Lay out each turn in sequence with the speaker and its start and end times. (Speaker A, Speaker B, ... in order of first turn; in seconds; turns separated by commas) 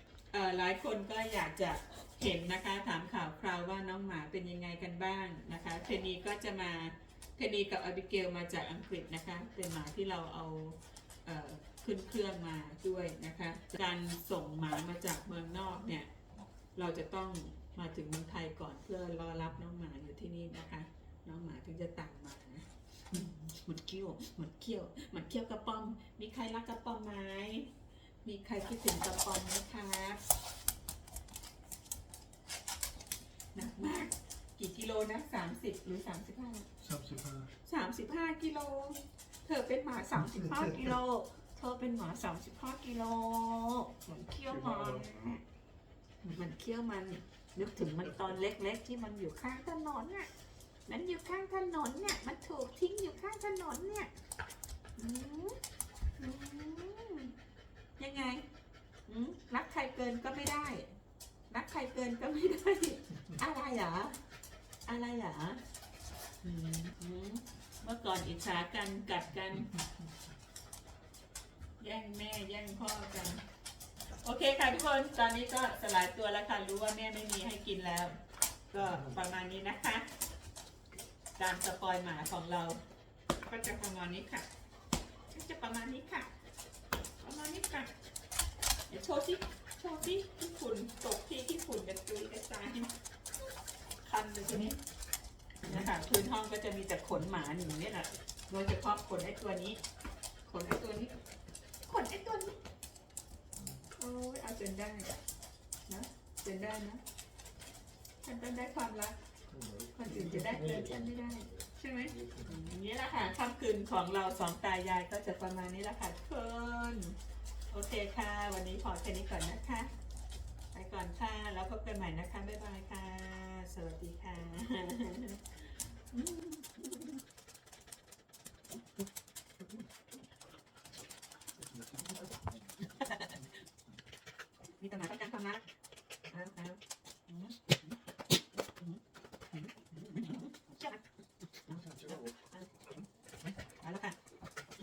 Speaker A: 0.3-16.1, Speaker A: 16.8-27.7, Speaker A: 28.2-30.2, Speaker A: 33.5-36.7, Speaker B: 36.8-37.5, Speaker A: 37.6-45.4, Speaker B: 44.5-45.0, Speaker A: 46.2-50.3, Speaker A: 50.9-54.1, Speaker A: 55.0-55.6, Speaker A: 56.2-57.3, Speaker A: 58.0-58.5, Speaker A: 59.1-60.9, Speaker A: 61.5-64.2, Speaker A: 64.8-65.6, Speaker A: 66.4-69.8, Speaker A: 71.8-73.4, Speaker A: 74.2-78.2, Speaker A: 78.7-80.1, Speaker A: 81.4-82.8, Speaker A: 83.4-84.5, Speaker A: 85.3-86.3, Speaker A: 87.2-87.9, Speaker A: 88.9-92.9, Speaker A: 94.0-94.8, Speaker A: 95.6-99.8, Speaker A: 100.4-101.1, Speaker A: 101.8-102.6, Speaker A: 104.0-105.1, Speaker A: 105.9-107.0, Speaker A: 108.2-109.2, Speaker B: 109.5-112.7, Speaker A: 110.0-117.2, Speaker A: 117.7-119.9, Speaker A: 120.7-127.2, Speaker B: 131.8-132.2, Speaker A: 132.8-133.4, Speaker A: 134.8-135.6, Speaker A: 136.3-137.9, Speaker A: 139.5-141.0, Speaker A: 141.5-143.0, Speaker A: 143.8-144.2